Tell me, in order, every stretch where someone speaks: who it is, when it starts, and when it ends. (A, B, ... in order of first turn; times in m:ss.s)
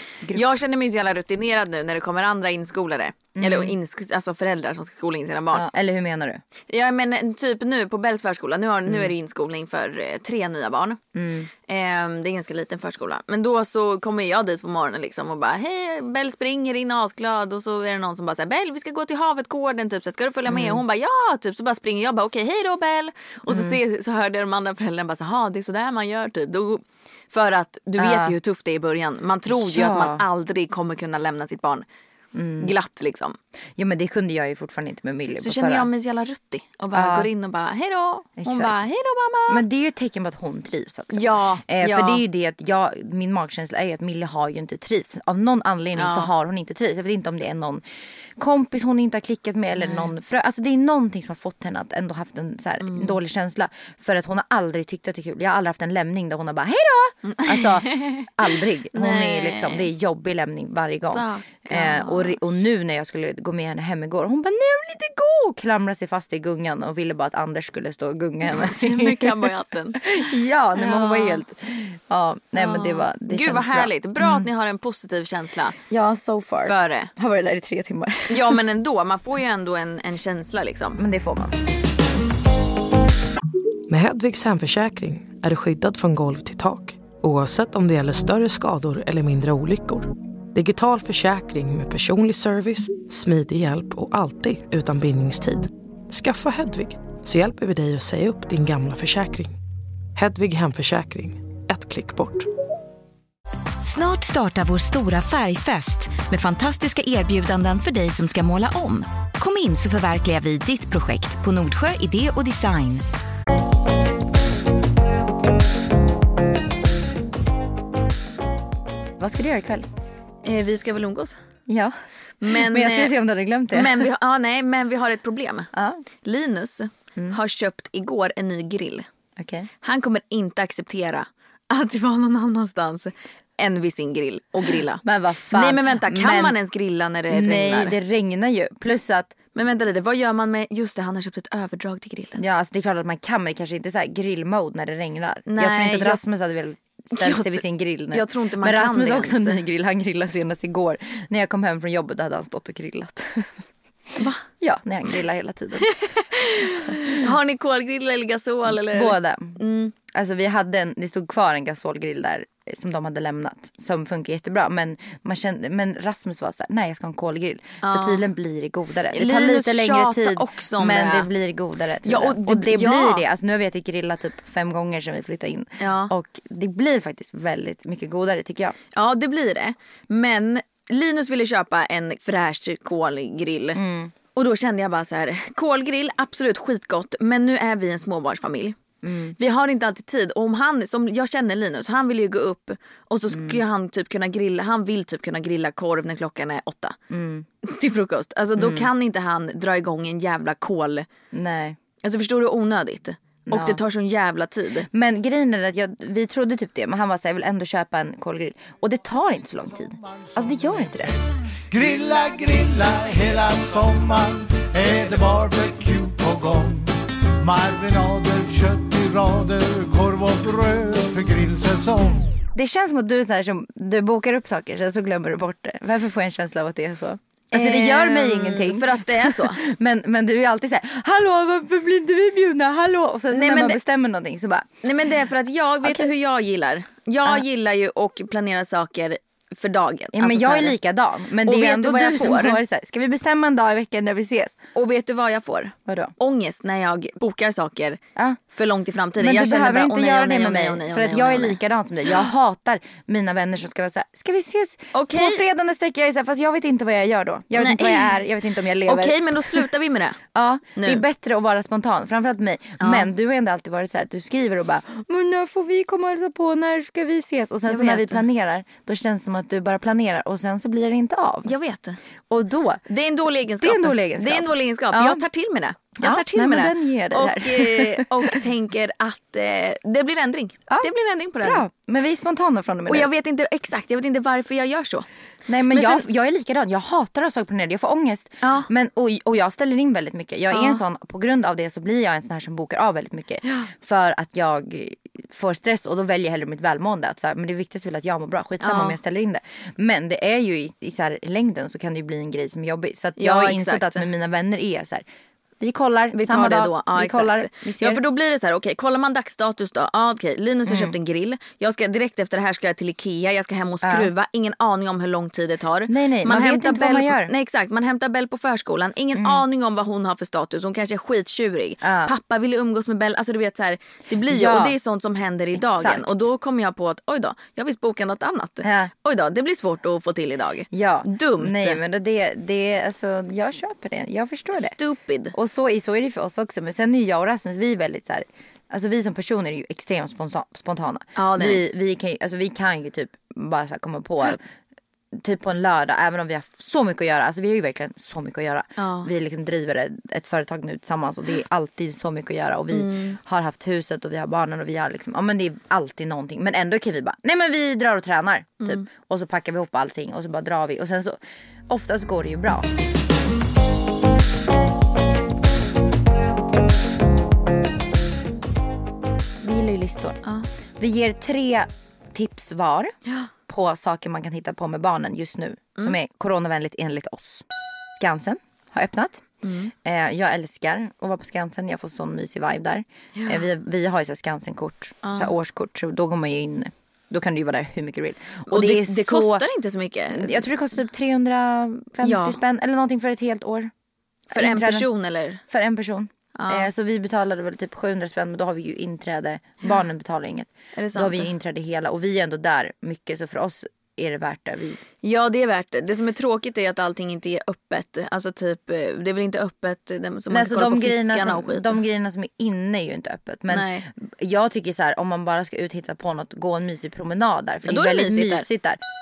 0:00.3-0:05.7 A
0:03.4-0:03.8 B
0:05.5-0:06.4 B
0:06.7-0:11.0 A
0:08.9-0:09.1 B
0:11.2-0:11.5 B
0:11.7-0:31.9 A
0:20.5-0:20.8 B
0:23.5-0:23.8 B
0:28.0-0:28.4 B
0:29.5-0:30.2 B
0:32.3-0:32.7 B
0:32.6-0:33.4 A
0:33.8-0:35.9 B
0:35.4-0:39.6 A
0:36.9-0:37.3 B
0:38.4-0:38.8 B
0:39.5-0:47.8 B
0:41.1-0:42.2 A
0:46.0-0:46.3 A
0:48.4-1:14.5 B
0:49.8-0:50.1 A
0:52.8-0:53.2 A
0:57.2-0:58.3 A
0:58.9-0:59.9 A
1:01.1-1:02.4 A
1:08.5-1:11.4 A
1:12.6-1:15.8 A
1:15.9-1:18.6 B
1:16.6-1:17.1 A
1:18.3-1:21.0 A
1:21.0-1:21.6 B
1:23.9-1:39.6 C
1:40.2-1:42.5 C
1:43.8-1:53.0 D
1:59.2-1:59.9 B
2:00.4-2:01.4 A
2:01.7-2:04.1 B
2:02.4-2:03.2 A
2:03.7-2:05.7 A
2:05.7-2:06.0 B
2:06.2-2:09.1 A
2:09.4-2:09.7 B
2:09.8-2:18.0 A
2:15.0-2:16.6 B
2:17.3-2:19.4 B
2:19.6-2:22.4 A
2:22.4-2:33.6 B
2:25.5-2:26.2 A
2:27.1-2:29.6 A
2:34.2-2:34.4 A
2:34.2-2:36.0 B
2:35.8-2:39.9 A
2:36.8-2:37.3 B
2:38.7-2:58.8 B
2:47.8-2:48.2 A
2:49.1-2:51.3 A
2:52.0-2:53.2 A
2:55.8-2:56.1 A
2:58.9-3:03.8 A
3:03.8-3:04.1 B
3:04.4-3:08.8 A
3:09.0-3:09.4 B
3:09.4-3:17.0 A
3:13.3-3:13.6 B
3:17.1-3:17.5 B
3:17.6-3:21.1 A
3:18.6-3:18.9 B
3:21.3-3:21.8 B
3:22.0-3:24.9 A
3:23.5-3:23.8 B
3:24.9-3:31.2 B
3:31.7-3:42.3 E
3:42.6-3:54.8 B
3:47.5-3:49.6 A
3:53.3-3:53.8 A
3:54.8-4:00.8 A
3:55.8-3:56.1 B
4:00.1-4:04.6 B
4:01.4-4:02.6 A
4:04.8-4:08.0 A
4:05.9-4:06.1 B
4:08.5-4:11.6 A
4:09.2-4:19.7 B
4:14.9-4:15.4 A
4:17.6-4:18.2 A
4:18.8-4:20.2 A
4:20.3-4:31.5 B
4:20.8-4:21.0 A
4:22.8-4:23.1 A
4:27.7-4:28.2 A
4:31.4-4:32.0 A
4:32.3-4:32.8 B
4:32.9-4:41.6 A
4:33.6-4:35.2 B
4:36.0-4:38.4 B
4:41.4-4:43.1 B
4:42.9-4:45.1 A
4:45.5-5:05.0 B
4:45.7-4:46.0 A
4:48.4-4:48.7 A
4:50.5-4:50.8 A
4:53.4-4:53.7 A
4:58.6-4:59.0 A
5:03.2-5:04.1 A
5:05.6-5:08.0 B
5:06.1-5:31.8 A
5:10.7-5:11.0 B
5:13.8-5:14.1 B
5:15.9-5:17.3 B
5:19.2-5:19.4 B
5:21.8-5:22.1 B
5:24.3-5:24.8 B
5:25.6-5:26.3 B
5:28.6-5:28.9 B
5:30.7-5:34.8 B
5:34.5-5:35.4 A
5:35.3-5:44.4 B
5:41.2-5:41.6 A
5:45.1-6:02.7 B
5:48.8-5:49.1 A
5:52.7-5:53.2 A
6:09.4-6:10.2 B
6:10.8-6:13.0 B
6:13.5-6:29.4 B
6:19.4-6:19.7 A
6:23.2-6:23.4 A
6:25.0-6:25.3 A
6:28.5-6:30.4 A
6:30.1-6:33.7 B
6:32.0-6:32.4 A
6:34.3-6:34.9 B
6:34.3-6:35.4 A
6:35.5-6:44.8 B
6:36.4-6:36.7 A
6:40.8-6:41.3 A
6:45.0-6:51.8 A
6:50.3-6:58.8 B
6:53.5-6:53.9 A
6:57.6-6:58.5 A